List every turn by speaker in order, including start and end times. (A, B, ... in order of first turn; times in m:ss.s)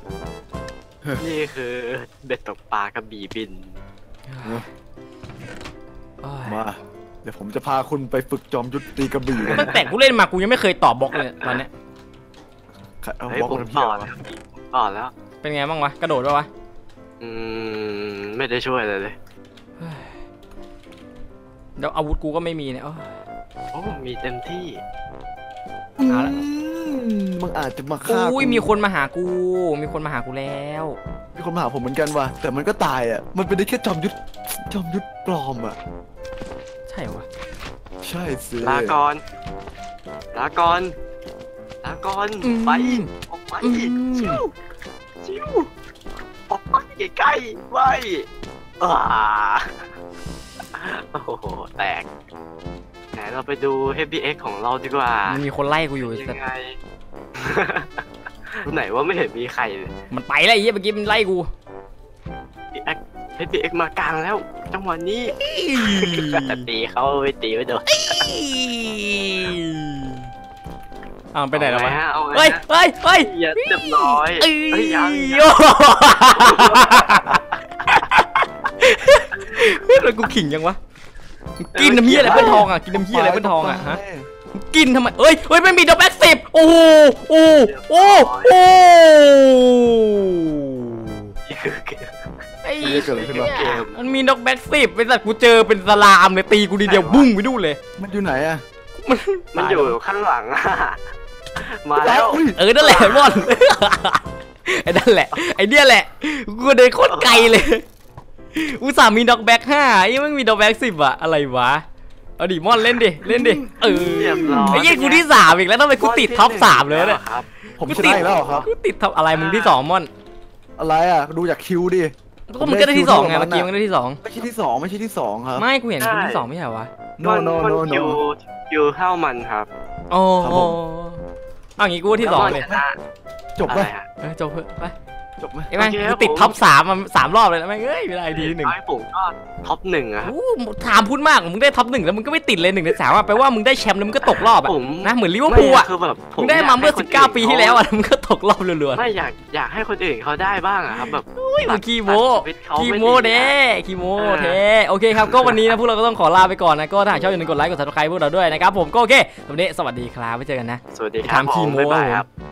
0:01.2-0:03.8 A
0:04.3-0:04.7 B
0:06.2-0:06.6 B
0:06.4-0:09.7 C
0:09.4-0:09.8 A
0:09.5-0:11.7 B
0:13.0-0:14.1 C
0:13.3-0:15.1 A
0:15.4-0:16.5 B
0:17.2-0:19.2 A
0:19.8-0:20.2 B
0:21.8-0:23.1 B
0:23.7-0:24.8 A
0:26.0-0:28.7 C
0:26.1-0:26.4 B
0:28.0-0:31.0 B
0:31.3-0:35.8 C
0:36.9-0:37.2 B
0:38.0-0:39.0 C
0:38.6-0:39.2 A
0:40.3-0:40.9 A
0:41.8-0:44.4 A
0:42.4-0:43.1 B
0:43.6-0:44.4 B
0:45.2-0:45.7 A
0:46.5-0:48.3 A
0:48.8-0:49.8 A
0:50.7-0:52.1 A
0:53.1-0:55.4 A
0:55.3-0:56.4 B
0:56.0-0:56.8 A
0:57.4-0:58.0 A
0:58.6-0:59.9 A
1:00.1-1:01.5 B
1:02.7-1:08.2 A
1:05.3-1:06.6 B
1:07.9-1:10.3 B
1:11.3-1:20.8 B
1:11.5-1:12.6 A
1:13.2-1:15.6 A
1:16.3-1:17.9 A
1:21.6-1:24.0 B
1:21.7-1:22.7 A
1:22.1-1:24.3 C
1:24.5-1:31.3 B
1:27.6-1:28.6 A
1:31.5-1:32.3 A
1:32.6-1:37.8 B
1:32.8-1:33.5 C
1:32.8-1:34.0 A
1:36.8-1:37.3 A
1:38.0-1:38.6 C
1:39.0-1:40.0 B
1:39.5-1:41.0 A
1:41.6-1:43.5 A
1:42.0-1:42.6 C
1:42.5-1:47.8 B
1:47.1-1:47.5 A
1:48.5-1:51.8 B
1:52.4-2:00.1 B
1:53.2-1:54.9 C
1:54.2-1:55.3 A
1:56.0-1:58.7 A
1:57.8-1:58.7 C
1:59.3-1:59.8 A
2:00.8-2:03.7 C
2:02.5-2:04.2 B
2:04.2-2:05.7 C
2:05.6-2:06.9 B
2:06.0-2:06.4 A
2:07.2-2:08.2 C
2:07.2-2:09.7 A
2:10.1-2:11.2 B
2:10.4-2:10.8 C
2:11.8-2:12.7 B
2:12.2-2:13.0 A
2:12.4-2:12.8 C
2:13.6-2:13.9 C
2:13.6-2:14.1 A
2:14.2-2:14.9 B
2:15.4-2:15.7 C
2:15.7-2:18.7 B
2:15.8-2:16.6 A
2:18.3-2:20.3 A
2:20.2-2:29.0 B
2:24.2-2:27.8 A
2:28.9-2:33.6 A
2:31.0-2:42.2 B
2:34.2-2:34.6 A
2:35.2-2:35.6 A
2:40.9-2:42.3 A